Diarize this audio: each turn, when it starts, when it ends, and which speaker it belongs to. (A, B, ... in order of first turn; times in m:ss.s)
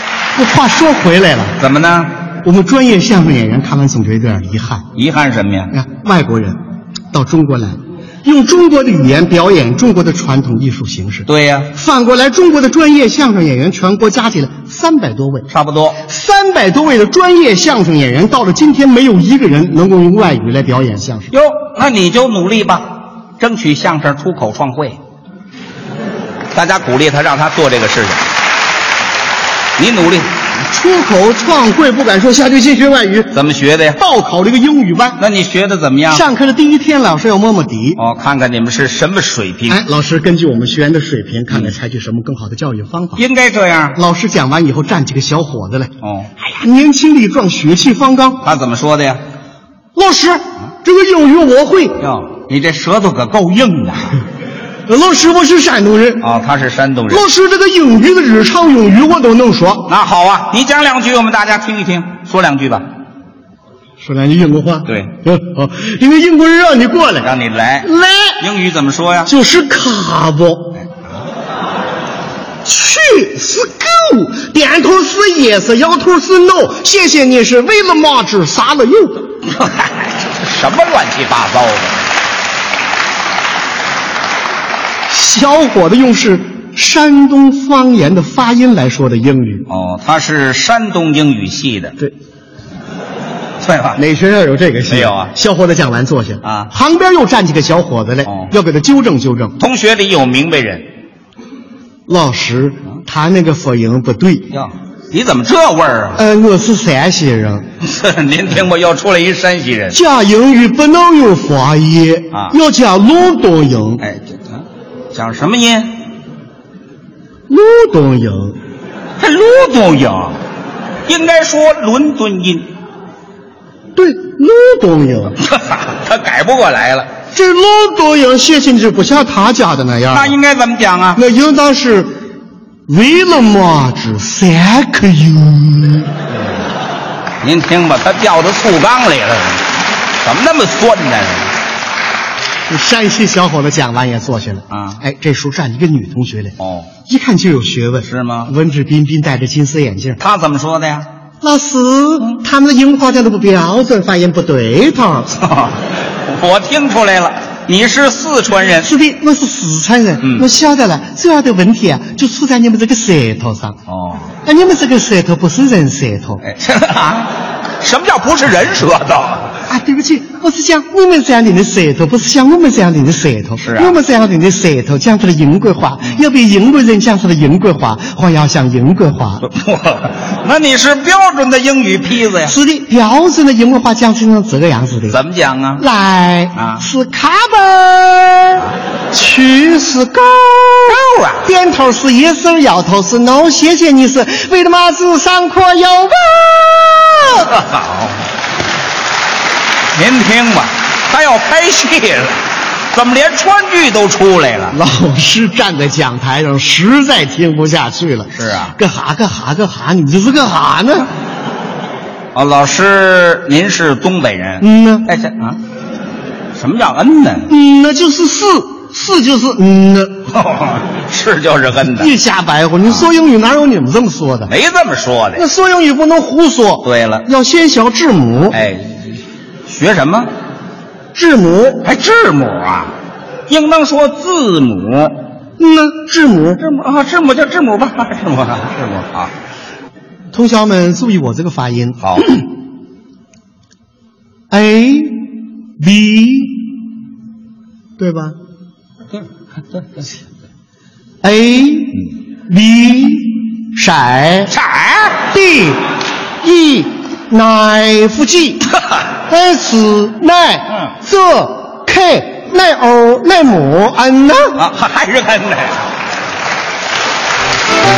0:00.4-0:01.6 A
0:01.6-0:02.1 B
0:02.4-0:04.8 A
0:05.0-0:05.7 B
0:05.7-0:06.6 A
0:07.1-0:15.5 A
0:11.3-0:11.7 B
0:15.5-0:16.0 B
0:16.0-0:21.3 A
0:21.3-0:25.0 B
0:26.5-0:28.2 B
0:29.8-0:30.3 B
0:30.7-0:33.3 A
0:33.3-0:34.0 B
0:34.0-0:35.2 A
0:35.2-0:36.3 B
0:36.1-0:38.0 A
0:38.0-0:39.8 B
0:39.7-0:43.2 A
0:41.5-0:41.8 B
0:43.2-0:44.0 B
0:44.0-0:48.4 A
0:46.0-0:46.3 B
0:48.4-0:49.2 B
0:50.0-0:52.0 A
0:52.0-0:54.2 B
0:54.9-0:56.3 A
0:56.2-0:57.2 B
0:57.1-0:59.9 A
0:59.9-1:02.8 B
1:04.0-1:08.4 A
1:07.2-1:09.3 B
1:09.2-1:10.8 A
1:12.6-1:19.3 A
1:19.5-1:22.0 B
1:25.1-1:29.6 A
1:29.7-1:32.0 B
1:33.6-1:34.0 B
1:34.0-1:39.6 A
1:34.9-1:35.3 B
1:36.4-1:36.7 B
1:38.3-1:38.5 B
1:39.6-1:40.9 B
1:42.1-1:44.5 A
1:44.5-1:46.2 B
1:46.2-1:47.7 A
1:47.8-1:50.0 B
1:49.9-1:54.0 A
1:54.0-1:56.0 B
1:57.5-1:58.6 A
1:59.2-2:00.4 B
2:01.1-2:02.7 B
2:04.0-2:05.4 A
2:05.4-2:07.1 B
2:07.3-2:10.4 A
2:10.1-2:11.2 B
2:11.2-2:12.1 A
2:12.9-2:16.1 A
2:17.4-2:19.6 B
2:20.2-2:21.5 B
2:22.7-2:30.2 A
2:24.7-2:25.0 B
2:26.6-2:26.9 B
2:28.0-2:28.5 B
2:30.2-2:31.1 B
2:31.4-2:35.3 A
2:35.4-2:38.9 B
2:38.8-2:43.8 A
2:43.9-2:44.3 B
2:44.4-2:46.4 A
2:46.4-2:49.6 B
2:49.7-2:59.4 A
2:53.6-2:54.0 B
2:59.4-3:02.6 B
3:02.5-3:05.2 A
3:05.1-3:05.8 B
3:05.8-3:17.5 A
3:06.6-3:06.8 B
3:10.9-3:11.5 B
3:17.5-3:18.2 B
3:20.0-3:22.4 B
3:22.9-3:24.8 B
3:24.7-3:31.1 A
3:28.3-3:28.8 B
3:32.4-3:35.6 B
3:34.6-3:35.1 A
3:36.6-3:37.5 B
3:37.5-3:40.2 A
3:40.3-3:42.1 B
3:42.0-3:44.5 A
3:44.5-3:45.4 B
3:45.4-3:48.6 A
3:46.8-3:47.2 B
3:48.5-3:50.3 B
3:51.2-3:51.9 A
3:51.8-3:52.9 B
3:53.5-3:55.2 B
3:55.6-3:56.7 A
3:56.6-3:59.3 B
4:00.3-4:02.4 A
4:04.5-4:05.3 A
4:05.8-4:06.6 A
4:08.0-4:08.4 A
4:11.2-4:14.5 A
4:14.5-4:15.2 B
4:15.3-4:15.8 A
4:16.4-4:18.6 A
4:19.3-4:24.6 A
4:24.6-4:25.8 B